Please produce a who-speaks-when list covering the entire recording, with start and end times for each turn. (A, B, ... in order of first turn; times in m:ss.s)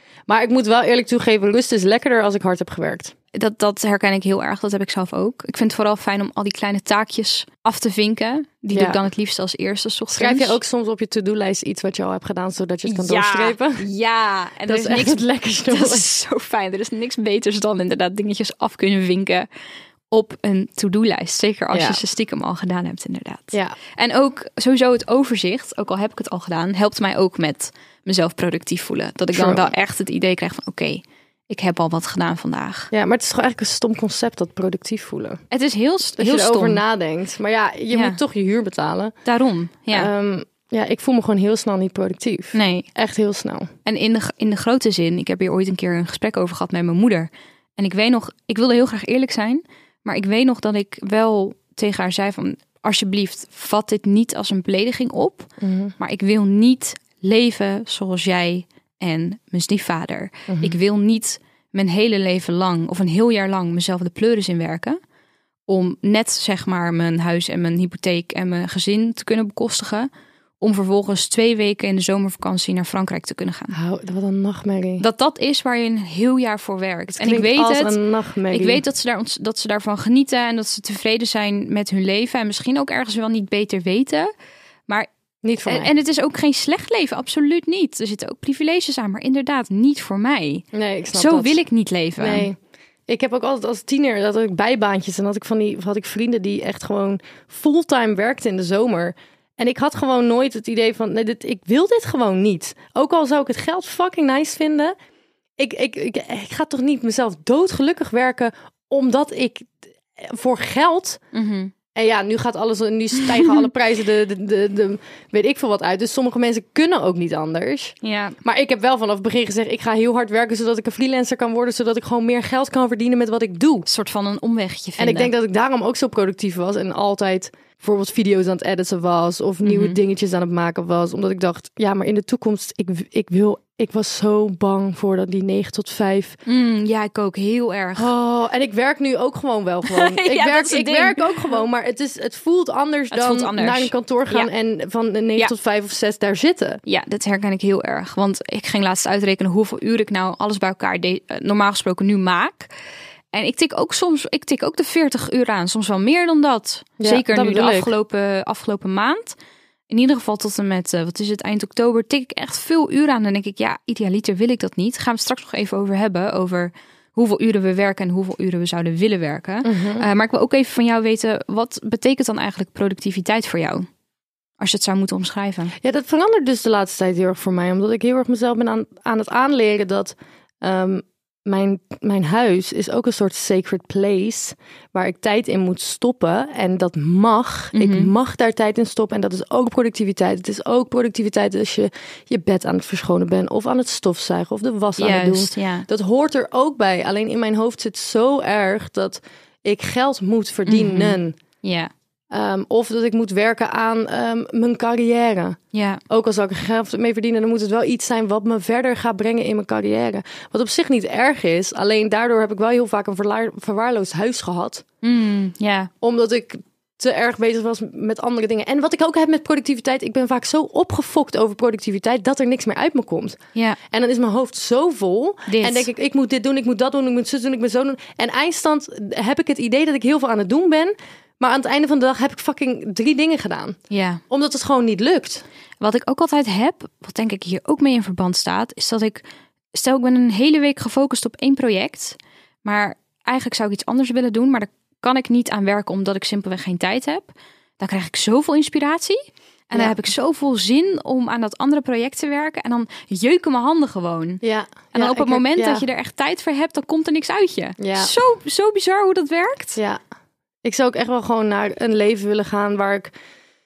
0:00.3-0:03.1 A
0:03.3-0:10.6 B
0:08.7-0:09.0 A
0:10.2-0:13.8 A
0:12.9-0:19.5 B
0:14.7-0:16.1 A
0:20.1-0:32.9 B
0:21.7-0:22.0 A
0:29.3-0:29.7 A
0:32.9-0:35.4 A
0:35.5-0:36.8 B
0:36.2-0:39.2 A
0:37.9-0:38.2 B
0:39.2-0:40.1 B
0:39.9-0:43.7 A
0:42.5-0:42.9 B
0:43.8-1:05.0 B
0:55.6-0:55.9 A
1:00.5-1:00.8 A
1:05.7-1:10.1 B
1:10.6-1:13.8 B
1:13.7-1:15.0 A
1:15.0-1:18.0 B
1:17.2-1:18.8 A
1:18.5-1:24.3 B
1:25.4-1:25.9 A
1:25.6-1:32.5 B
1:30.7-1:31.6 A
1:32.2-1:32.6 A
1:33.1-1:45.0 A
1:45.6-1:51.2 A
1:51.3-1:51.7 B
1:52.0-2:03.9 A
1:58.0-1:58.4 B
2:03.9-2:05.3 B
2:05.0-2:16.4 A
2:09.6-2:10.0 B
2:16.5-2:18.1 B
2:18.0-2:26.8 A
2:19.9-2:21.6 B
2:23.1-2:24.5 B
2:26.9-2:32.7 B
2:33.3-2:39.4 B
2:37.0-2:37.9 A
2:39.9-2:53.9 B
2:49.6-2:50.1 A
2:54.6-2:55.7 B
2:55.8-3:21.4 A
3:07.7-3:08.1 B
3:15.0-3:15.9 B
3:20.7-3:21.9 B
3:22.3-3:25.6 A
3:25.7-3:26.0 B
3:26.1-3:34.8 A
3:35.0-3:35.9 B
3:36.0-3:53.8 A
3:45.5-3:45.9 B
3:53.9-3:54.2 B
3:54.3-3:55.4 A
3:55.8-4:14.4 B
4:14.4-4:15.8 A
4:14.9-4:19.8 B
4:17.8-4:18.1 A
4:19.8-4:20.0 A
4:20.6-4:23.1 A